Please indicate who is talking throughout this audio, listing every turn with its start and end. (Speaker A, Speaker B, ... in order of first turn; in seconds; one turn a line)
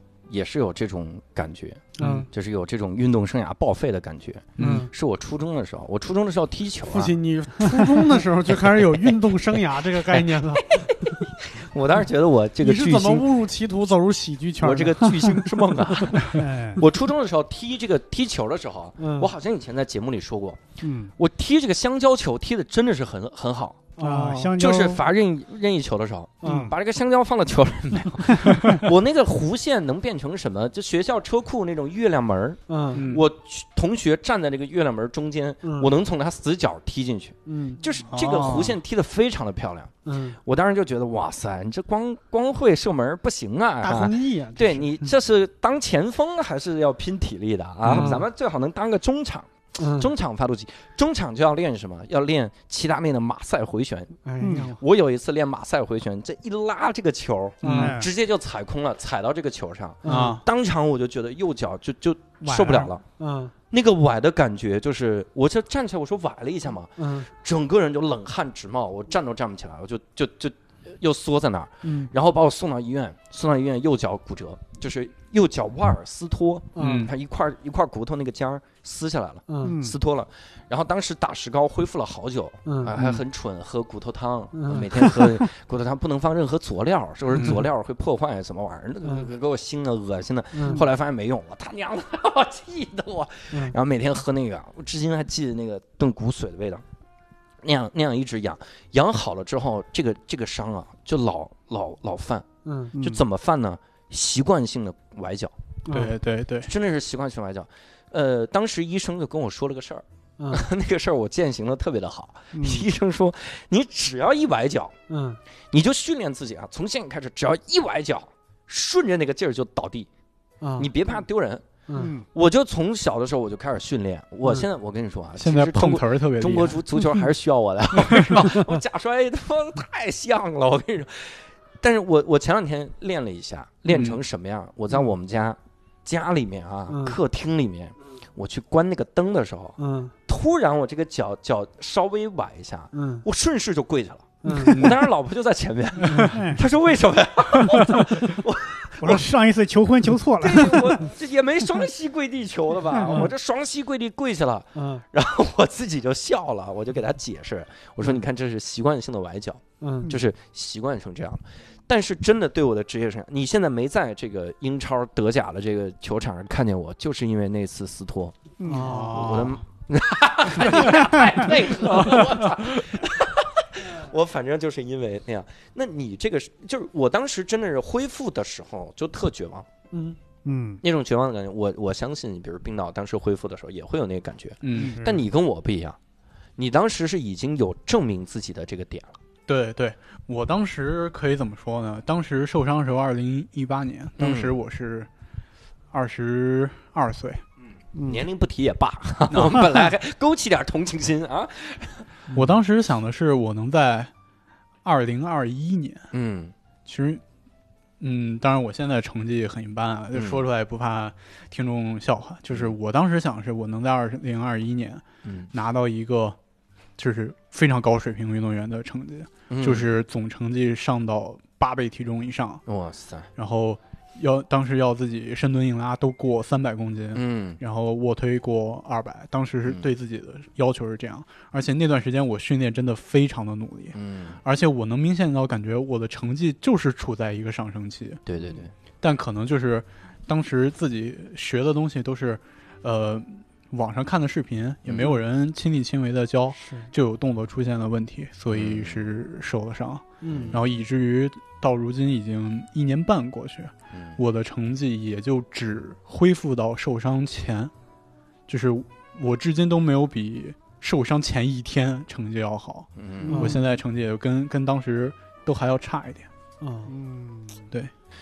Speaker A: 0.3-7.1
Speaker B: 2.0-2.3
Speaker C: 2.0-2.2
Speaker C: 4.6-4.9
Speaker B: 4.6-4.9
Speaker B: 6.9-11.1
Speaker A: 9.9-13.3
Speaker B: 12.6-15.4
Speaker A: 14.6-20.6
Speaker D: 16.3-16.8
Speaker B: 19.0-19.3
Speaker D: 20.8-21.1
Speaker A: 21.1-23.8
Speaker B: 24.0-24.6
Speaker D: 24.0-25.0
Speaker A: 24.6-63.0
Speaker B: 26.4-26.7
Speaker D: 26.4-26.7
Speaker D: 28.4-28.7
Speaker B: 32.7-33.1
Speaker C: 32.9-33.2
Speaker B: 35.6-35.9
Speaker B: 37.5-37.8
Speaker C: 38.1-38.8
Speaker B: 40.0-40.4
Speaker B: 43.8-45.0
Speaker C: 47.8-48.2
Speaker B: 47.9-48.2
Speaker B: 49.8-50.1
Speaker B: 54.2-54.8
Speaker D: 54.4-54.7
Speaker C: 57.6-57.9
Speaker B: 57.6-58.0
Speaker D: 57.7-58.1
Speaker B: 60.0-60.4
Speaker C: 60.0-60.4
Speaker D: 62.4-62.9
Speaker B: 63.2-63.5
Speaker A: 63.7-96.8
Speaker B: 67.0-67.3
Speaker B: 71.8-72.1
Speaker B: 76.7-77.1
Speaker C: 76.8-77.1
Speaker B: 79.5-79.8
Speaker D: 79.6-80.0
Speaker B: 82.7-82.9
Speaker C: 82.9-83.2
Speaker B: 84.5-85.4
Speaker C: 87.3-87.6
Speaker B: 90.5-90.8
Speaker A: 97.6-105.5
Speaker B: 102.6-102.9
Speaker D: 102.9-103.2
Speaker B: 105.8-106.2
Speaker C: 105.9-106.7
Speaker A: 106.6-114.9
Speaker B: 110.4-110.6
Speaker D: 112.5-112.9
Speaker B: 115.1-115.4
Speaker A: 115.7-120.1
Speaker B: 120.6-120.9
Speaker A: 120.8-121.7
Speaker B: 121.9-122.1
Speaker D: 121.9-122.2
Speaker A: 122.3-149.2
Speaker C: 125.4-126.8
Speaker C: 128.1-128.4
Speaker C: 133.9-134.2
Speaker B: 136.9-137.2
Speaker B: 139.8-140.1
Speaker B: 142.9-143.2
Speaker B: 144.4-144.9
Speaker D: 144.5-144.9
Speaker B: 146.0-146.4
Speaker D: 146.2-146.6
Speaker D: 149.0-151.1
Speaker A: 150.4-179.7
Speaker D: 152.9-153.3
Speaker B: 154.7-155.0
Speaker B: 159.8-160.1
Speaker D: 168.6-169.6
Speaker B: 168.7-169.4
Speaker D: 170.6-172.4
Speaker B: 179.9-180.2
Speaker D: 180.4-180.8
Speaker A: 180.8-186.0
Speaker C: 184.6-185.0
Speaker D: 184.7-185.2
Speaker A: 186.6-189.1
Speaker C: 189.5-195.1
Speaker A: 194.2-194.5
Speaker C: 195.9-197.4
Speaker A: 198.0-202.1
Speaker C: 199.3-199.7
Speaker C: 202.3-204.1
Speaker C: 204.8-206.1
Speaker A: 206.1-206.5
Speaker C: 206.8-207.2
Speaker C: 208.0-216.4
Speaker A: 210.1-210.4
Speaker A: 215.2-215.5
Speaker C: 217.0-222.6
Speaker A: 219.5-219.8
Speaker A: 222.7-223.3
Speaker C: 223.3-238.2
Speaker A: 227.1-227.6
Speaker A: 233.9-234.4
Speaker A: 238.2-238.7
Speaker C: 239.0-257.7
Speaker A: 244.8-245.1
Speaker D: 246.6-246.9
Speaker A: 248.5-249.0
Speaker B: 250.2-250.6
Speaker A: 250.3-250.6
Speaker A: 253.9-254.2
Speaker C: 258.5-266.3
Speaker A: 262.9-263.5
Speaker B: 263.3-263.6
Speaker B: 266.6-266.9
Speaker D: 266.9-267.7